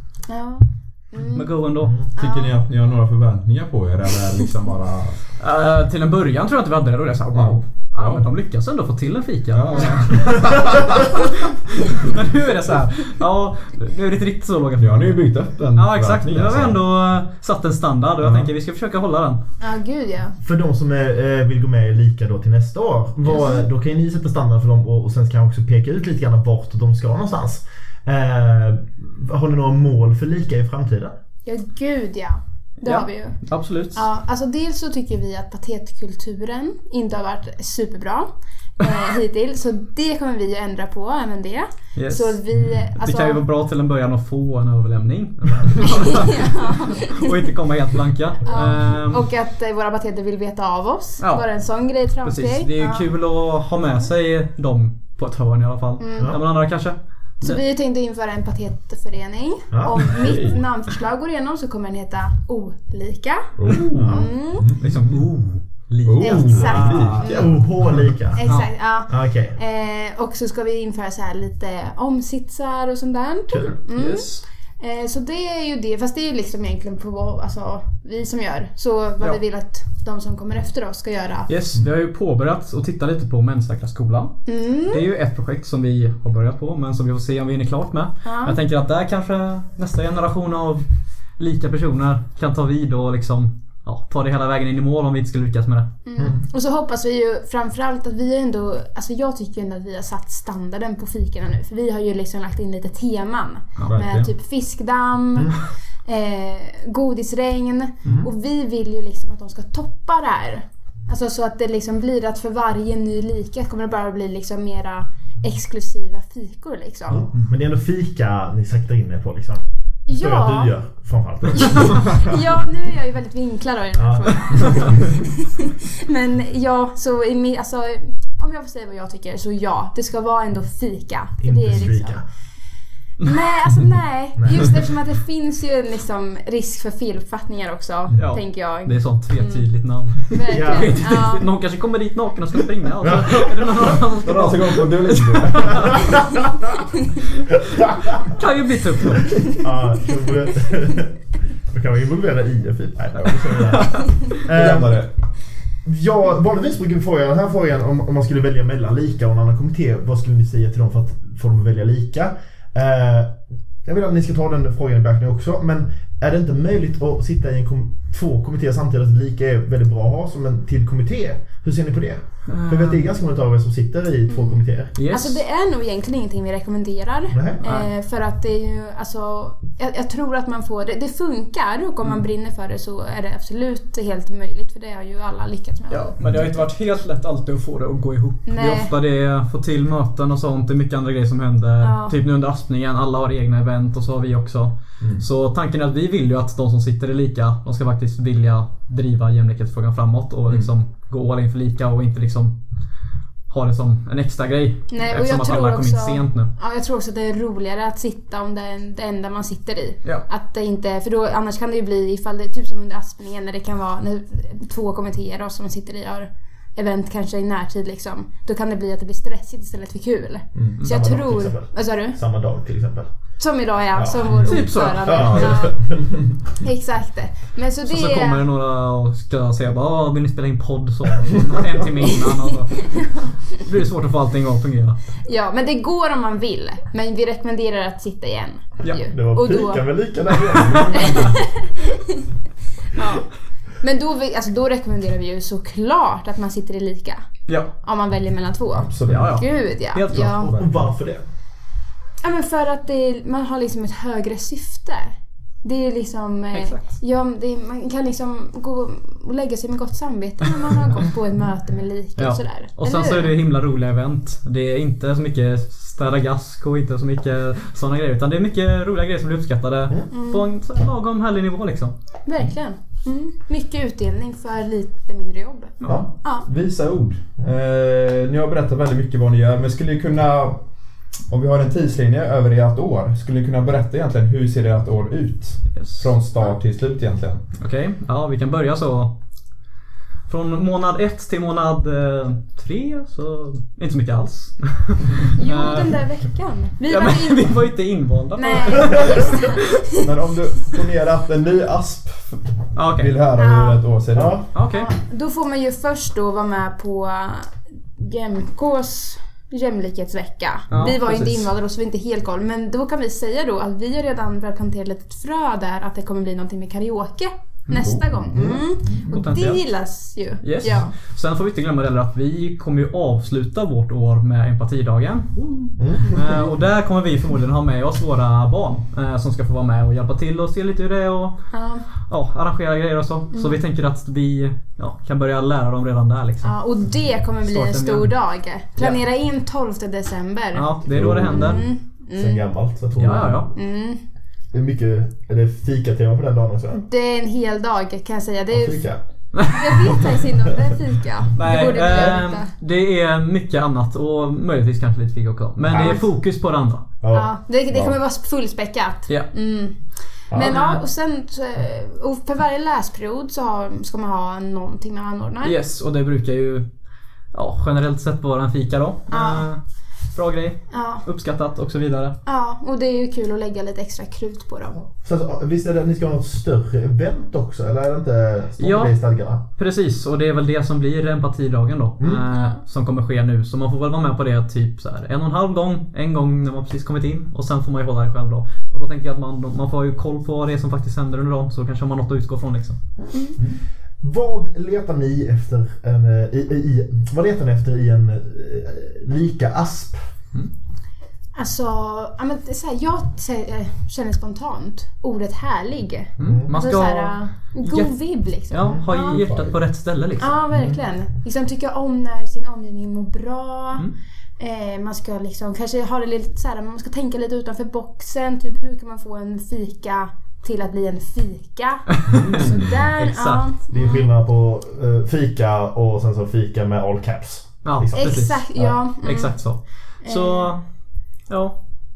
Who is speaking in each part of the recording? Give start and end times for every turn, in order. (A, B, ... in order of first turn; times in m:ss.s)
0:00.3-0:01.5 A
0:01.3-0:01.9 B
0:01.8-0:02.1 C
0:02.2-0:02.6 A
0:02.2-0:05.2 D
0:05.4-0:15.2 B
0:07.3-0:08.3 D
0:09.5-0:10.5 D
0:14.8-0:16.8 D
0:15.7-0:19.4 B
0:18.2-0:18.5 D
0:19.6-0:20.4 A
0:20.4-0:31.1 C
0:23.3-0:23.6 A
0:31.4-0:33.4 A
0:32.8-0:34.0 B
0:33.9-0:43.4 A
0:41.9-0:42.4 B
0:42.9-0:49.3 B
0:45.8-0:47.4 A
0:48.4-0:53.1 A
0:52.2-0:57.6 B
0:56.0-0:56.4 A
0:57.4-1:04.7 A
0:59.7-1:00.5 C
1:00.0-1:00.6 D
1:03.6-1:05.1 D
1:03.9-1:04.2 C
1:04.8-1:07.3 B
1:06.0-1:07.3 D
1:06.2-1:07.6 A
1:06.4-1:08.5 C
1:08.3-1:21.5 A
1:09.1-1:09.6 C
1:13.5-1:13.8 C
1:13.9-1:14.4 B
1:21.5-1:30.8 B
1:24.4-1:25.0 A
1:28.2-1:28.6 A
1:31.4-1:35.9 B
1:36.0-1:57.2 A
1:43.9-1:44.3 D
1:57.1-2:02.3 C
2:00.1-2:00.7 A
2:01.6-2:12.2 A
2:04.0-2:04.9 C
2:11.4-2:12.2 C
2:13.2-2:21.5 A
2:14.4-2:14.7 C
2:18.1-2:26.0 B
2:20.5-2:21.0 C
2:23.0-2:24.0 C
2:24.2-2:26.1 D
2:27.7-2:28.3 C
2:28.2-2:29.4 B
2:29.3-2:31.2 C
2:31.7-2:35.0 C
2:33.2-2:34.4 B
2:34.5-2:35.1 D
2:35.8-2:55.0 C
2:52.5-2:53.1 B
2:54.3-3:06.2 A
2:55.0-2:55.4 B
2:57.3-2:57.6 C
3:05.9-3:22.6 B
3:06.2-3:06.5 D
3:08.4-3:08.9 A
3:11.8-3:12.2 A
3:23.5-3:26.5 B
3:24.9-3:42.2 A
3:40.8-3:43.1 C
3:43.4-3:45.8 A
3:43.9-3:46.2 C
3:44.4-3:45.7 B
3:46.6-3:48.4 A
3:47.8-3:55.0 B
3:52.9-3:53.3 A
3:55.2-3:59.9 A
3:59.1-4:01.3 C
4:00.5-4:01.3 D
4:00.5-4:01.2 B
4:00.8-4:02.3 A
4:02.9-4:03.2 A
4:03.8-4:07.2 A
4:07.5-4:07.7 B
4:07.8-4:10.5 A
4:08.8-4:09.4 D
4:09.1-4:10.4 B
4:10.4-4:10.9 D
4:10.4-4:11.2 C
4:12.2-4:23.4 A
4:16.5-4:16.8 B
4:22.2-4:31.9 B
4:30.1-4:30.5 A
4:32.2-4:36.5 A
4:35.9-4:40.6 D
4:41.3-4:47.4 D
4:45.7-4:46.1 B
4:47.6-4:49.2 B
4:50.3-4:56.0 B
4:55.3-4:57.6 A
4:56.9-4:59.6 B
4:58.4-4:59.8 A
5:00.0-5:04.4 D
5:02.7-5:03.1 B
5:03.4-5:03.8 A
5:04.1-5:04.5 C
5:04.5-5:04.9 B
5:04.7-5:20.9 A
5:10.7-5:11.5 B
5:17.8-5:19.4 D
5:18.3-5:18.6 C
5:19.1-5:19.6 B
5:20.4-5:31.4 B
5:25.8-5:26.2 C
5:31.5-5:31.8 A
5:32.0-5:36.5 B
5:33.3-5:33.6 A
5:36.4-5:42.5 A
5:37.4-5:38.1 B
5:40.5-5:41.6 B
5:40.9-5:41.6 D
5:42.1-5:43.5 C
5:43.0-5:43.5 B
5:43.5-5:44.0 A
5:44.5-5:46.8 C
5:46.7-5:48.9 A
5:48.5-5:49.0 C
5:49.3-5:49.9 B
5:49.5-5:52.5 A
5:49.8-5:50.4 C
5:51.4-5:56.8 B
5:55.6-5:56.0 C
5:57.0-5:57.3 C
5:57.1-5:59.8 A
6:00.3-6:00.6 C
6:00.3-6:05.6 A
6:00.4-6:00.8 B
6:05.4-6:06.6 B
6:07.3-6:09.6 B
6:09.1-6:09.4 A
6:10.1-6:12.2 B
6:10.7-6:11.0 A
6:12.2-6:14.8 A
6:15.0-6:19.4 C
6:18.6-6:19.0 B
6:19.6-6:32.8 B
6:22.3-6:22.6 A
6:34.0-6:40.0 C
6:41.4-6:49.2 A
6:46.2-6:47.9 B
6:46.2-6:46.5 C
6:48.4-6:50.4 B
6:48.6-6:48.9 C
6:49.1-6:49.6 D
6:50.2-6:53.8 A
6:54.4-7:04.1 A
7:02.1-7:03.5 B
7:02.1-7:02.9 D
7:03.7-7:08.8 C
7:07.6-7:10.6 B
7:08.0-7:09.4 A
7:10.0-7:10.5 A
7:11.3-7:11.5 B